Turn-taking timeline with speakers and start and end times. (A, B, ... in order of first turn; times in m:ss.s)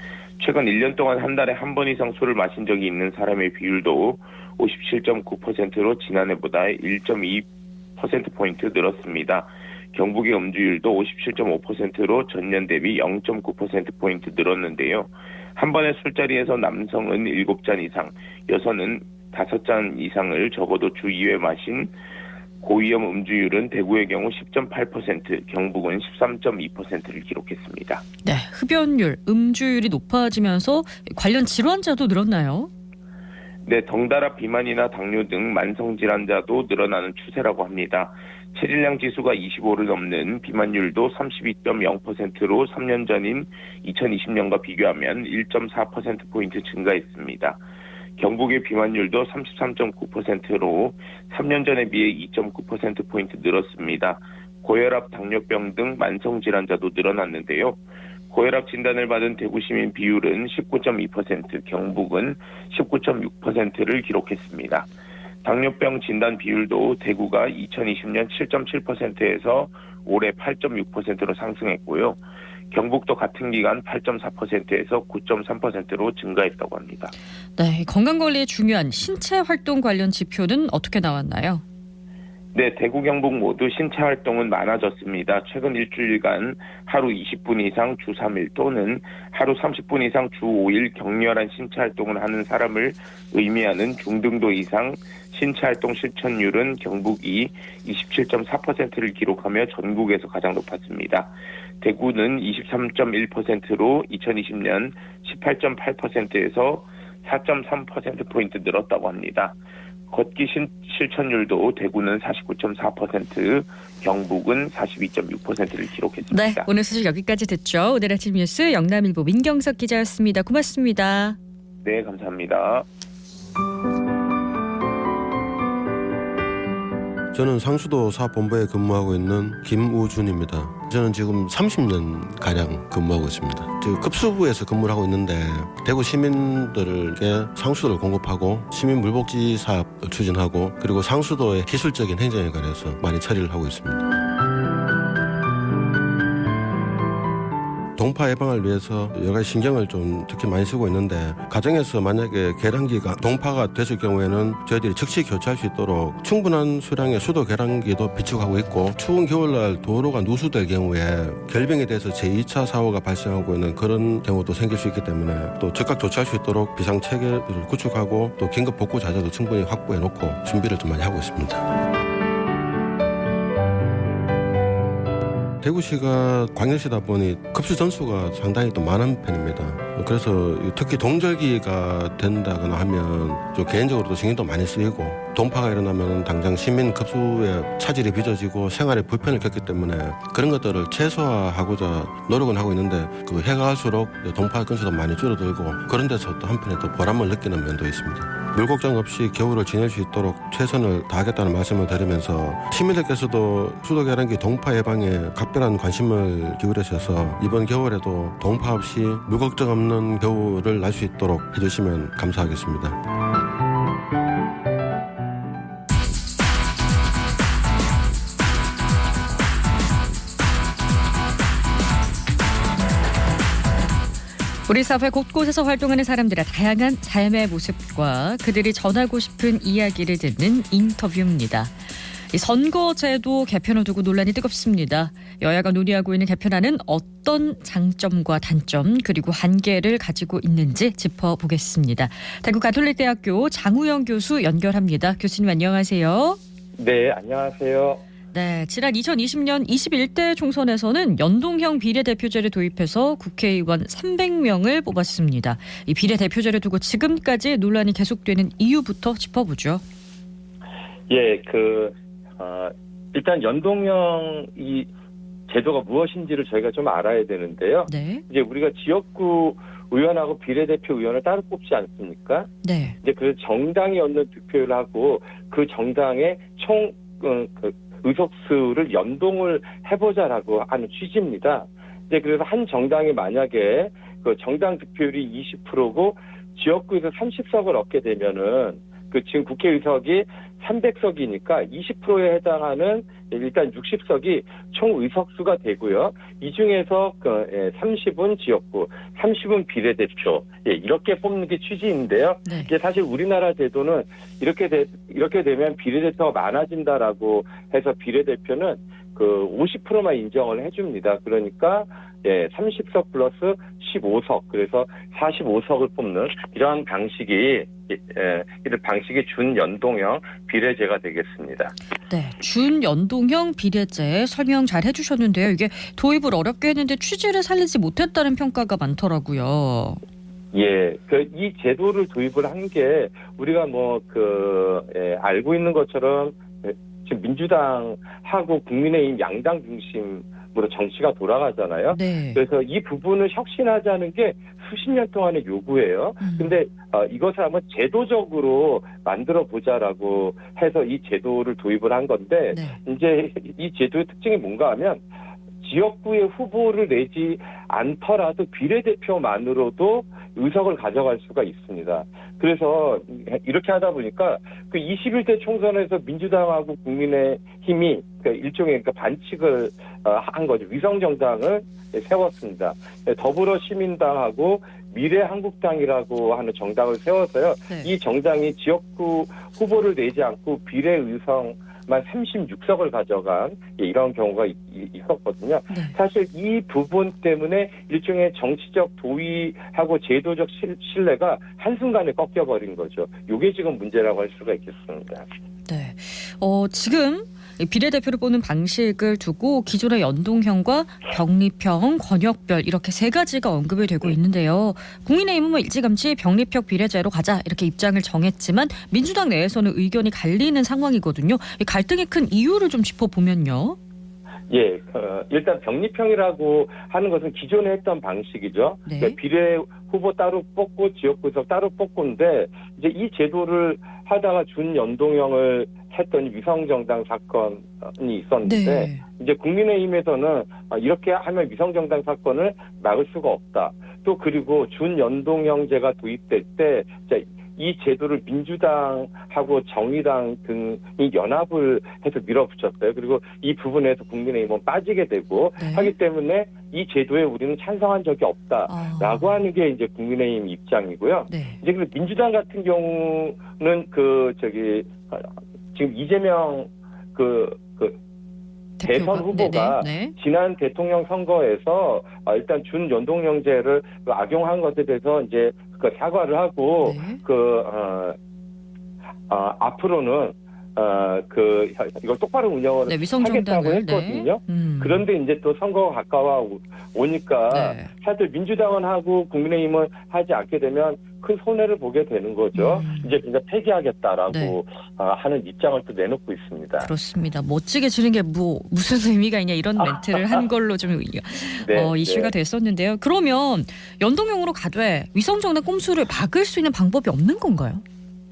0:00.4-0:07.4 A
0:08.0-0:21.9 A
0:22.6-0:28.0 A
0:28.2-0:32.7 B
0:33.6-0:47.6 A
0:48.2-0:57.8 A
0:58.3-1:04.9 A
1:05.4-1:12.2 A
1:12.7-1:17.1 A
1:17.6-1:21.6 B
1:22.5-1:49.6 A
1:50.1-1:56.7 A
1:56.3-2:01.4 B
2:01.8-2:02.9 A
2:07.3-2:24.1 C
2:28.0-2:51.7 C
2:55.6-3:33.0 C
3:44.7-3:51.7 B
3:52.3-4:06.4 B
4:06.8-4:08.0 D
4:08.3-4:19.8 B
4:21.1-4:24.9 D
4:25.5-5:21.7 D
4:27.9-4:28.2 B
4:32.6-4:33.0 B
5:02.4-5:02.7 B
5:22.1-5:30.0 B
5:30.5-5:55.0 D
5:41.9-5:42.4 B
5:46.2-5:46.6 B
5:52.5-5:52.8 B
5:55.6-6:35.2 D
6:25.7-6:26.0 B
6:35.7-6:53.8 B
6:54.5-7:38.0 D
6:58.8-6:59.2 B
7:08.4-7:09.0 B
7:25.6-7:25.9 B
7:28.7-7:29.4 B
7:31.3-7:31.6 B
7:38.8-7:40.1 B
7:38.8-7:48.2 D
7:46.8-7:47.2 B
7:49.3-8:06.9 D
7:52.9-7:55.0 B
7:57.5-7:57.9 B
8:02.5-8:03.2 B
8:04.3-8:04.6 B
8:06.8-8:17.8 B
8:09.8-8:10.4 D
8:11.6-8:12.3 D